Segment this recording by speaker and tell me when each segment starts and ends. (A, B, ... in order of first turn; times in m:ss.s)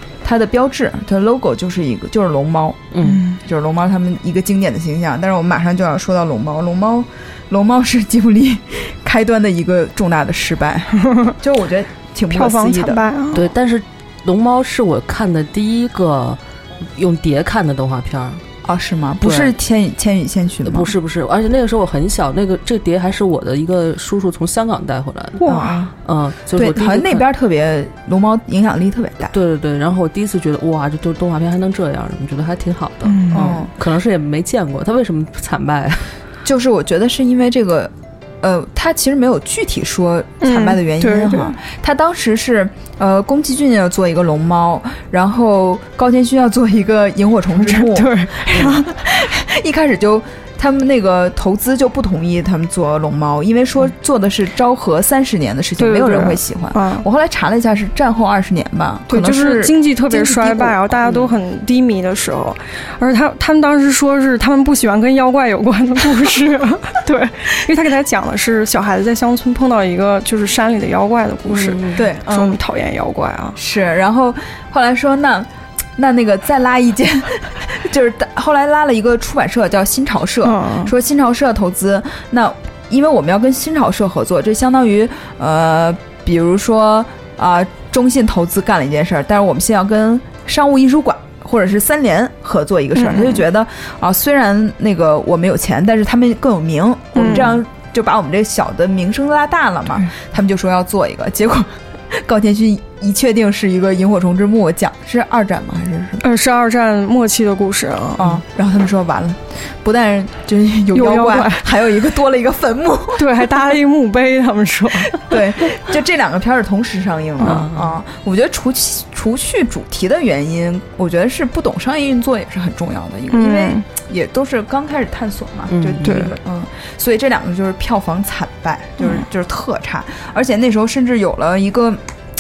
0:00.2-0:13.0 A
0:02.9-0:03.2 B
0:03.0-0:03.4 C
0:11.1-0:11.3 C
0:12.3-0:13.5 C
0:13.3-0:16.4 B
0:17.0-0:18.4 B
0:18.6-0:20.9 A
0:19.2-0:19.5 B
0:20.6-0:25.5 B
0:25.4-0:25.9 C
0:25.5-0:25.9 A
0:26.0-0:27.3 B
0:26.5-0:29.3 A
0:29.3-0:36.1 B
0:33.1-0:33.6 C
0:33.3-0:33.7 A
0:36.4-1:01.1 A
0:40.4-0:41.6 C
0:47.6-0:48.9 C
0:55.8-0:57.1 C
0:59.1-1:13.6 C
1:11.5-1:12.0 B
1:12.0-1:12.6 A
1:13.6-1:46.2 A
1:20.4-1:20.9 C
1:33.0-1:33.4 C
1:37.2-1:37.6 C
1:46.2-1:48.4 C
1:48.2-1:53.5 A
1:50.9-1:51.7 C
1:53.2-1:55.4 C
1:55.2-2:12.0 A
1:57.4-1:57.7 C
1:57.4-1:58.0 B
2:03.3-2:03.9 C
2:05.7-2:06.3 B
2:06.0-2:06.4 C